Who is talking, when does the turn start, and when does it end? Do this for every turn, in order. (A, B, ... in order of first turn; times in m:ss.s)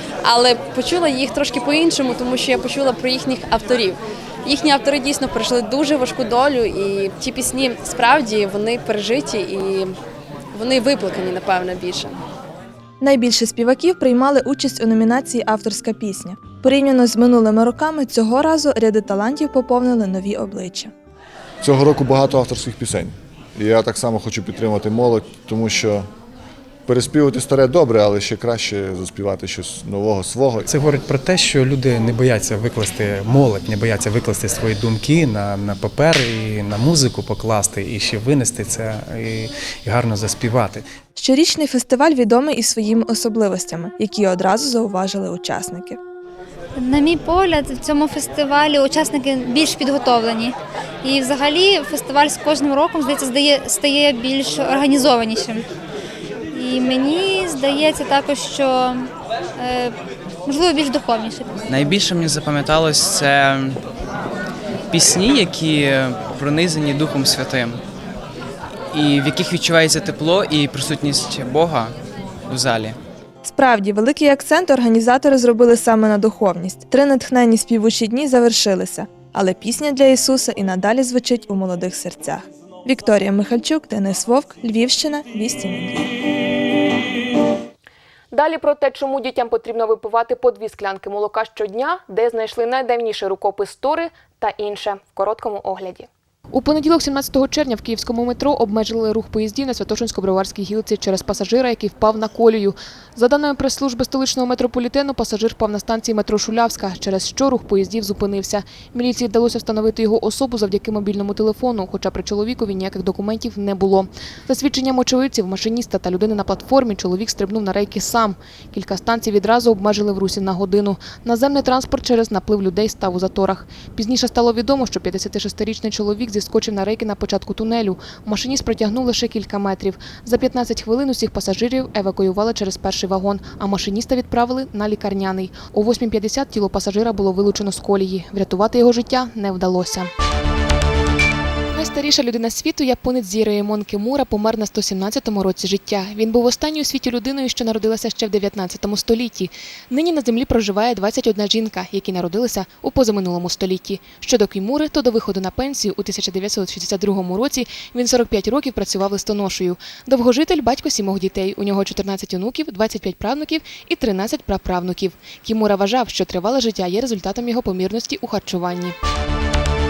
0:00.2-0:10.0 A
0:10.5-0:12.2 A
0:13.0-0:20.9 B
0:21.6-0:26.1 C
0:26.9-0:30.7 C
0:30.7-0:40.9 D
0:41.2-0:46.0 B
0:46.8-0:55.6 E
0:56.5-0:59.9 E
1:00.5-1:01.6 E
1:01.7-1:03.8 F
1:04.9-1:07.8 F
1:08.9-1:11.9 F
1:12.5-1:13.0 F
1:13.4-1:26.1 B
1:28.3-2:20.1 G
2:21.7-2:49.0 G